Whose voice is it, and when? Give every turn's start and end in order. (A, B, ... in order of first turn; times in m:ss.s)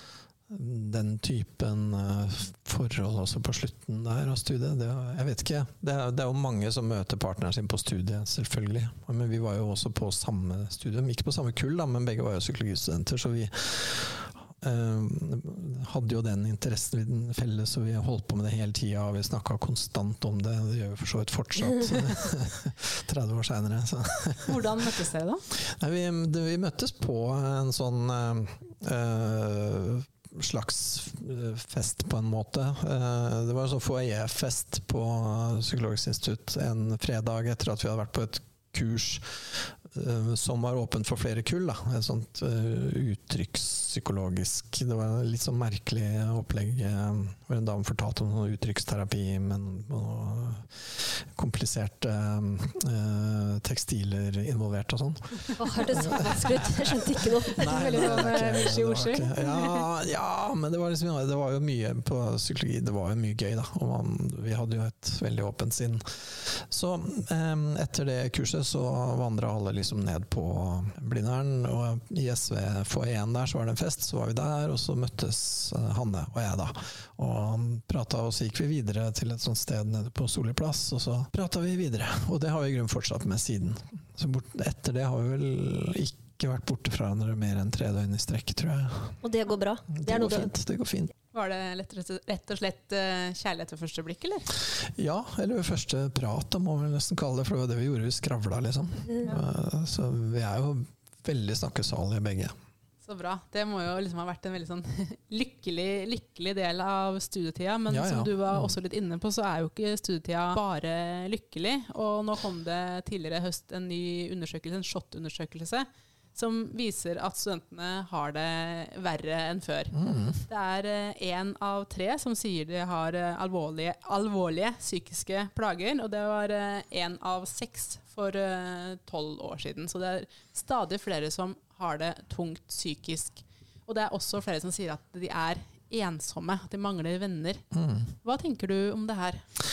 0:00.5-0:24.7 A
0:24.4-0:25.4 B
0:25.5-1:29.2 A
0:55.6-0:58.8 C
0:57.5-0:59.9 B
1:29.2-1:30.5 C
1:29.9-1:31.1 A
1:31.3-1:34.5 B
1:34.8-1:42.5 A
1:43.0-2:17.6 B
1:47.9-1:48.8 A
1:59.9-2:00.4 A
2:17.7-2:18.1 A
2:18.2-2:19.4 B